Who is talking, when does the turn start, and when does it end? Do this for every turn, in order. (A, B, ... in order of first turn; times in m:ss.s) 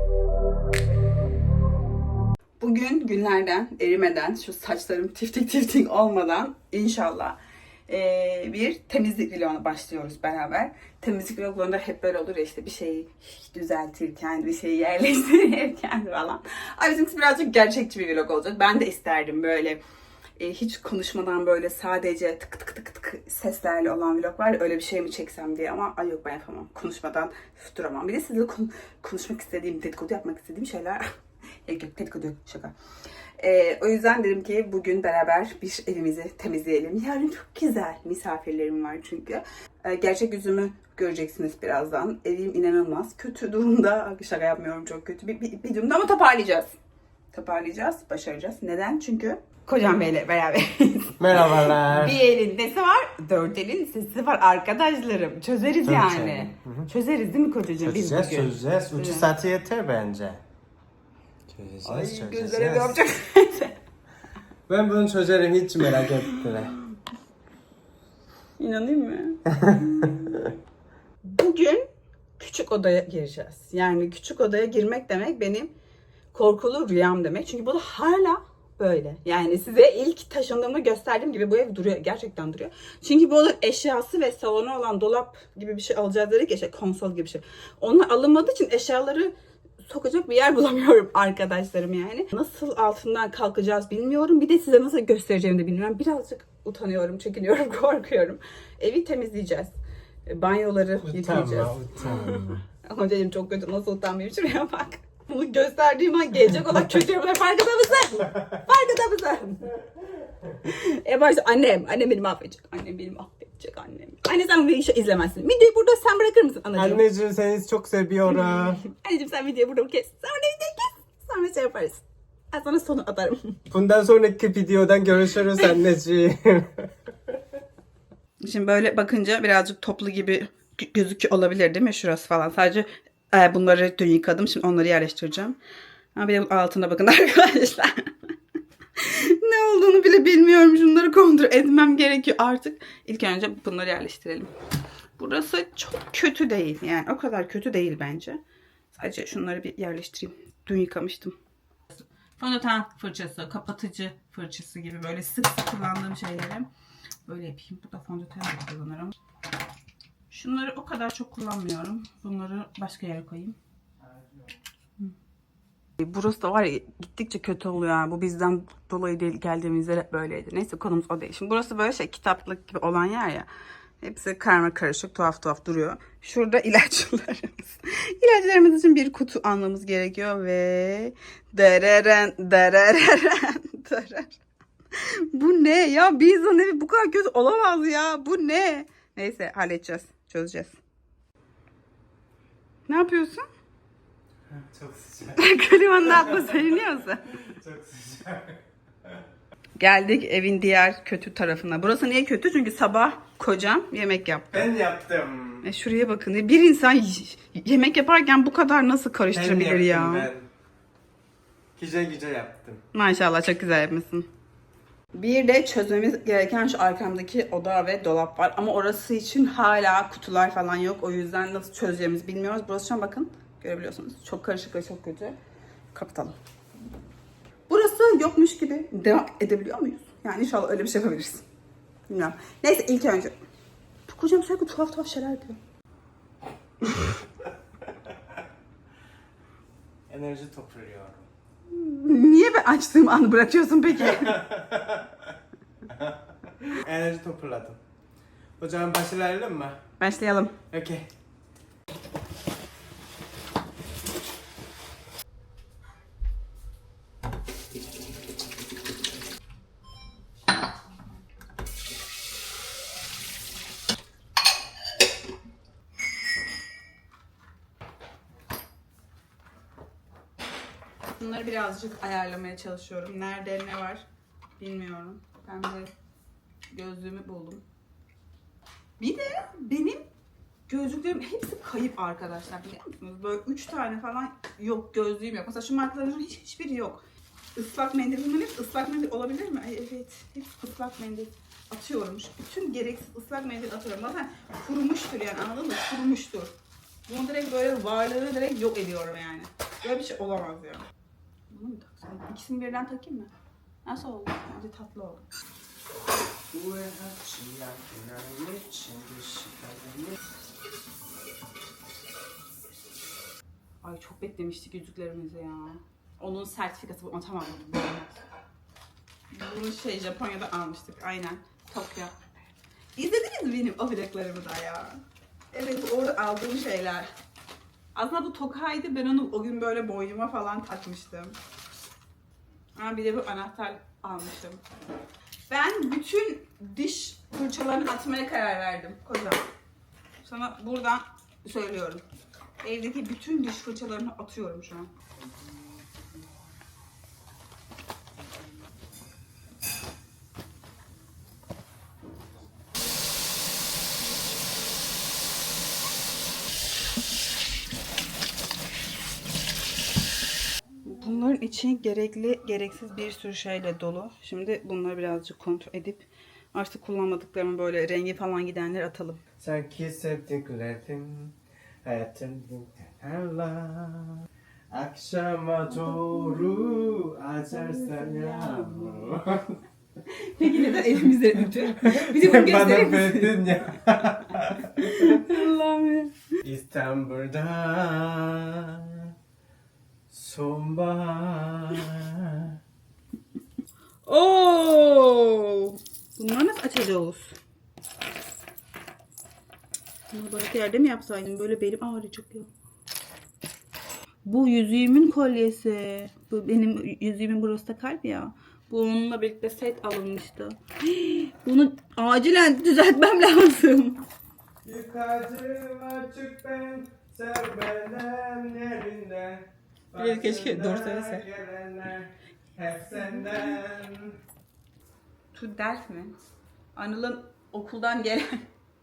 0:02.6-0:19.8 A
0:20.4-0:31.0 A
0:31.6-0:32.7 A
0:33.4-0:46.7 A
0:47.3-0:59.3 A
0:51.2-0:52.2 B
0:55.8-0:56.9 B
0:57.8-1:00.4 B
1:01.5-1:03.0 B
1:01.8-1:03.8 A
1:04.7-1:06.8 B
1:06.0-1:06.4 A
1:08.6-1:10.4 A
1:09.6-1:09.9 B
1:11.2-1:11.8 A
1:12.4-1:15.7 A
1:16.3-1:39.7 A
1:40.2-1:49.8 A
1:41.0-1:42.6 B
1:46.5-1:46.8 B
1:50.6-1:57.0 A
1:56.8-1:58.8 B
1:58.3-2:03.6 A
2:03.7-2:07.4 B
2:08.4-2:15.6 A
2:16.1-2:17.9 A
2:19.0-2:24.5 A
2:25.2-2:28.4 A
2:28.9-2:31.4 A
2:31.9-2:36.7 A
2:37.2-2:39.2 A
2:40.3-2:43.6 A
2:44.0-2:44.5 B
2:46.0-2:53.5 A
2:54.0-3:04.4 A
3:05.0-3:10.8 A
3:12.9-3:13.4 A
3:14.5-3:19.2 B
3:15.4-3:17.2 A
3:19.8-3:24.7 A
3:24.5-3:25.7 B
3:25.6-3:30.3 A
3:29.3-3:30.5 B
3:31.8-3:32.8 B
3:32.9-3:34.3 A
3:35.1-3:45.4 A
3:45.9-3:46.3 A
3:47.7-3:51.4 A
3:52.1-3:53.3 A
3:54.1-3:55.6 A
3:58.1-3:58.4 B
4:00.1-4:01.3 B
4:01.7-4:04.4 A
4:03.9-4:07.8 B
4:08.6-4:09.8 B
4:10.0-4:10.6 A
4:10.7-4:11.1 B
4:31.2-4:34.0 A
4:34.6-4:35.9 A
4:36.7-4:37.6 A
4:39.0-4:40.1 A
4:40.7-4:47.0 A
4:47.5-4:56.5 A
4:57.1-5:00.8 A
5:01.5-5:03.3 A
5:03.8-5:05.2 A
5:06.5-5:10.2 B
5:13.8-5:18.2 A
5:19.3-5:22.4 A
5:23.0-5:27.1 A
5:27.9-5:31.4 A
5:32.8-5:34.6 A
5:35.5-5:39.4 A
5:40.2-5:42.0 A
5:42.6-5:44.9 A
6:00.8-6:09.2 A
6:09.4-6:19.6 B
6:17.5-6:19.1 A
6:20.0-6:23.6 A
6:21.7-6:25.4 B
6:24.6-6:26.2 A
6:26.4-6:29.1 B
6:30.1-6:32.6 B
6:34.0-6:37.4 A
6:40.1-6:42.5 A
6:44.2-6:54.0 A
6:54.6-7:04.2 B
7:00.0-7:01.2 A
7:05.3-7:06.2 A
7:06.8-7:08.4 A